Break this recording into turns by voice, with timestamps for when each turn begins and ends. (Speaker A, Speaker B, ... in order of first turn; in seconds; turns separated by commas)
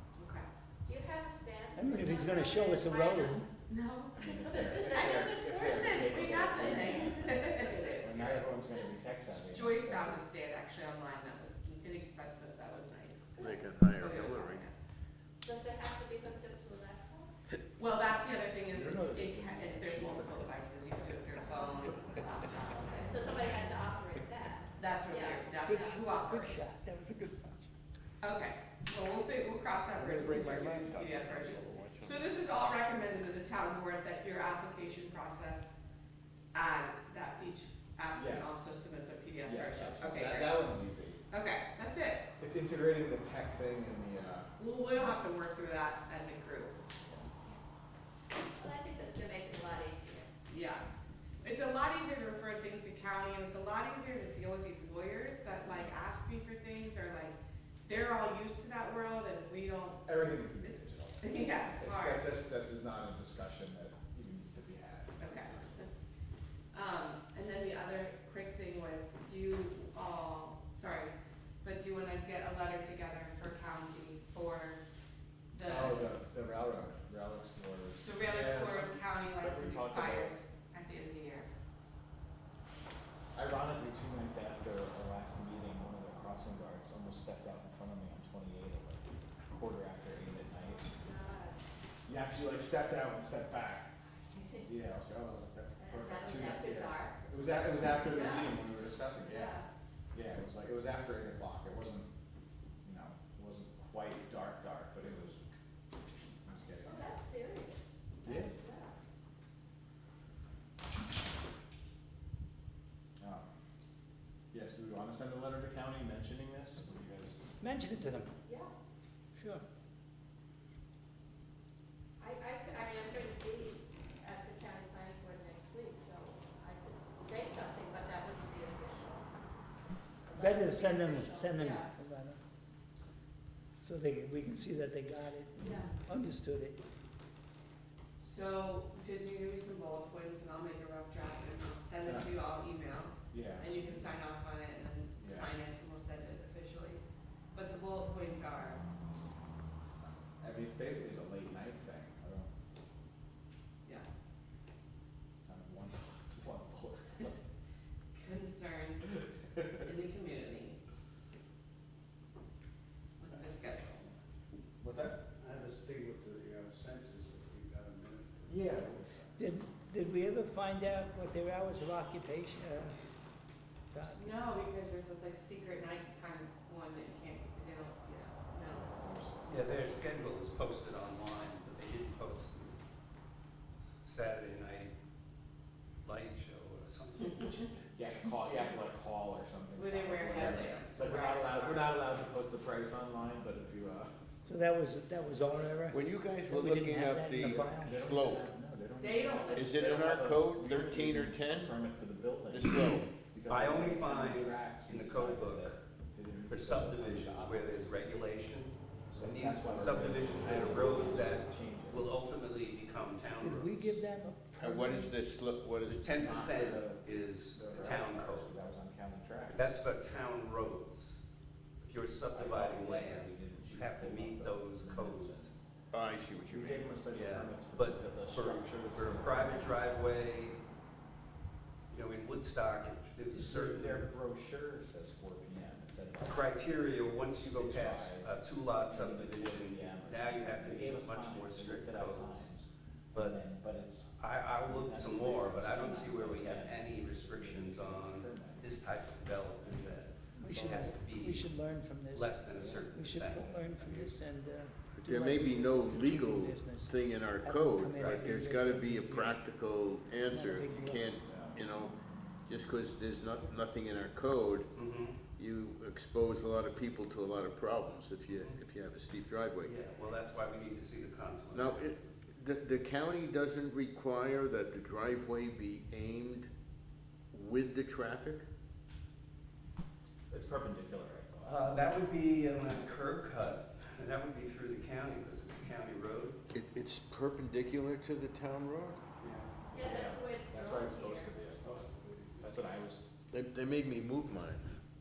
Speaker A: 0.2-0.5, Speaker B: 0.8-3.4, Speaker C: 1.7-3.5, Speaker A: 3.7-5.2, Speaker D: 4.1-10.2, Speaker B: 4.5-8.2, Speaker A: 5.8-8.4, Speaker A: 9.4-14.7, Speaker E: 13.4-14.6, Speaker B: 15.4-17.3, Speaker A: 17.8-23.4, Speaker D: 18.7-21.0, Speaker C: 18.9-20.1, Speaker B: 21.4-21.8, Speaker B: 23.0-25.9, Speaker A: 24.8-26.7, Speaker C: 25.6-27.7, Speaker A: 28.2-35.7, Speaker E: 30.0-32.4, Speaker A: 36.5-40.6, Speaker D: 38.1-38.6, Speaker D: 39.4-41.2, Speaker A: 41.3-42.3, Speaker D: 42.4-44.5, Speaker A: 44.6-46.8, Speaker B: 48.5-50.3, Speaker A: 50.5-50.9, Speaker A: 51.4-62.2, Speaker D: 60.0-65.8, Speaker A: 65.2-65.9, Speaker A: 66.7-74.8, Speaker A: 75.5-76.0, Speaker D: 75.6-80.3, Speaker A: 78.0-81.5, Speaker D: 83.3-90.9, Speaker B: 90.6-91.6, Speaker D: 92.0-93.9, Speaker B: 94.4-94.7, Speaker D: 94.6-99.5, Speaker B: 95.8-97.2, Speaker B: 98.0-98.5, Speaker B: 99.3-99.7, Speaker D: 100.1-102.1, Speaker D: 102.8-105.4, Speaker D: 106.4-107.1, Speaker B: 106.8-109.0, Speaker D: 108.2-108.5, Speaker D: 113.2-113.5, Speaker D: 114.5-117.4, Speaker C: 117.6-118.3, Speaker C: 119.3-119.6, Speaker B: 122.2-129.3, Speaker B: 130.2-131.9, Speaker C: 130.3-132.4, Speaker C: 133.8-136.8, Speaker B: 135.6-135.9, Speaker A: 138.2-147.0, Speaker D: 142.0-142.3, Speaker D: 143.3-143.7, Speaker D: 145.2-145.5, Speaker A: 147.5-148.8, Speaker D: 150.4-152.5, Speaker D: 155.4-157.3, Speaker A: 158.2-160.8, Speaker A: 163.2-164.1, Speaker F: 164.8-168.5, Speaker D: 168.5-169.3, Speaker C: 169.4-172.9, Speaker C: 173.9-174.3, Speaker A: 174.2-178.8, Speaker D: 178.7-179.9, Speaker G: 179.4-182.8, Speaker G: 184.0-184.9, Speaker G: 186.0-187.8, Speaker D: 188.0-194.1, Speaker A: 189.8-191.9, Speaker C: 194.4-198.0, Speaker E: 195.9-198.5, Speaker D: 197.4-202.7, Speaker A: 199.0-199.8, Speaker E: 199.5-201.7, Speaker E: 202.5-203.1, Speaker D: 203.3-208.2, Speaker G: 203.4-205.8, Speaker G: 206.5-213.8, Speaker D: 209.1-212.1, Speaker C: 213.4-215.1, Speaker E: 214.6-216.0, Speaker G: 215.9-218.5, Speaker D: 216.2-219.8, Speaker G: 219.5-221.2, Speaker G: 221.8-225.5, Speaker D: 222.3-225.5, Speaker E: 225.9-226.9, Speaker D: 226.5-229.9, Speaker G: 227.1-230.6, Speaker G: 231.9-234.1, Speaker D: 233.3-248.7, Speaker G: 236.2-242.5, Speaker G: 243.1-243.4, Speaker G: 244.2-251.4, Speaker C: 250.3-259.4, Speaker G: 252.1-253.4, Speaker D: 252.6-252.8, Speaker E: 255.0-261.9, Speaker C: 260.2-261.0, Speaker D: 261.2-261.6, Speaker E: 262.5-264.7, Speaker G: 264.7-265.2, Speaker E: 265.4-269.8, Speaker G: 269.6-271.8, Speaker E: 271.5-276.5, Speaker E: 277.3-278.4, Speaker D: 280.3-281.6, Speaker G: 281.4-286.4, Speaker E: 286.5-289.0, Speaker B: 289.7-291.4, Speaker D: 289.7-293.0, Speaker E: 293.3-294.7